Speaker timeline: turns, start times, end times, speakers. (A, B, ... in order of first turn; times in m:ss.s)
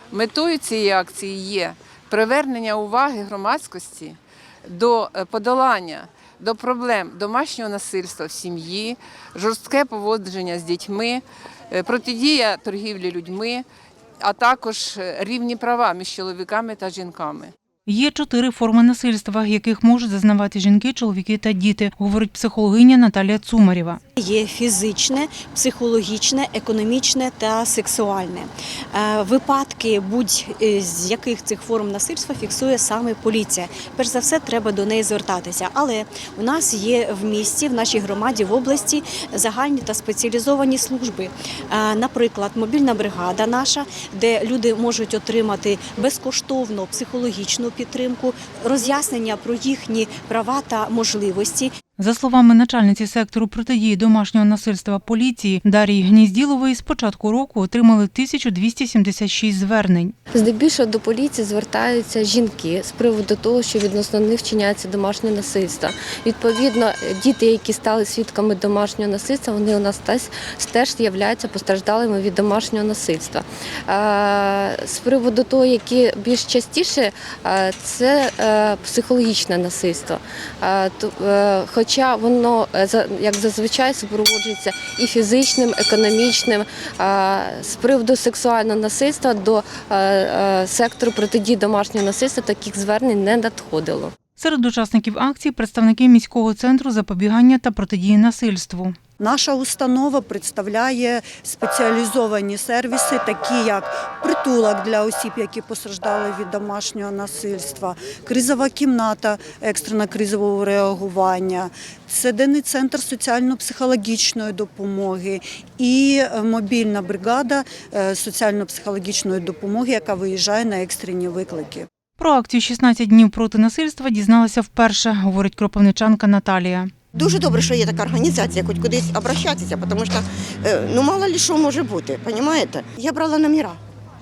0:00.1-0:13.6 A
0:14.2-0:17.5 A
0:17.9-0:24.0 B
0:24.2-0:24.5 C
0:25.0-0:46.1 C
0:46.7-0:51.7 C
0:52.0-1:00.1 B
1:00.3-1:34.1 D
1:34.4-1:39.0 B
1:39.2-2:01.9 E
2:02.2-2:06.9 B
2:07.1-2:13.8 F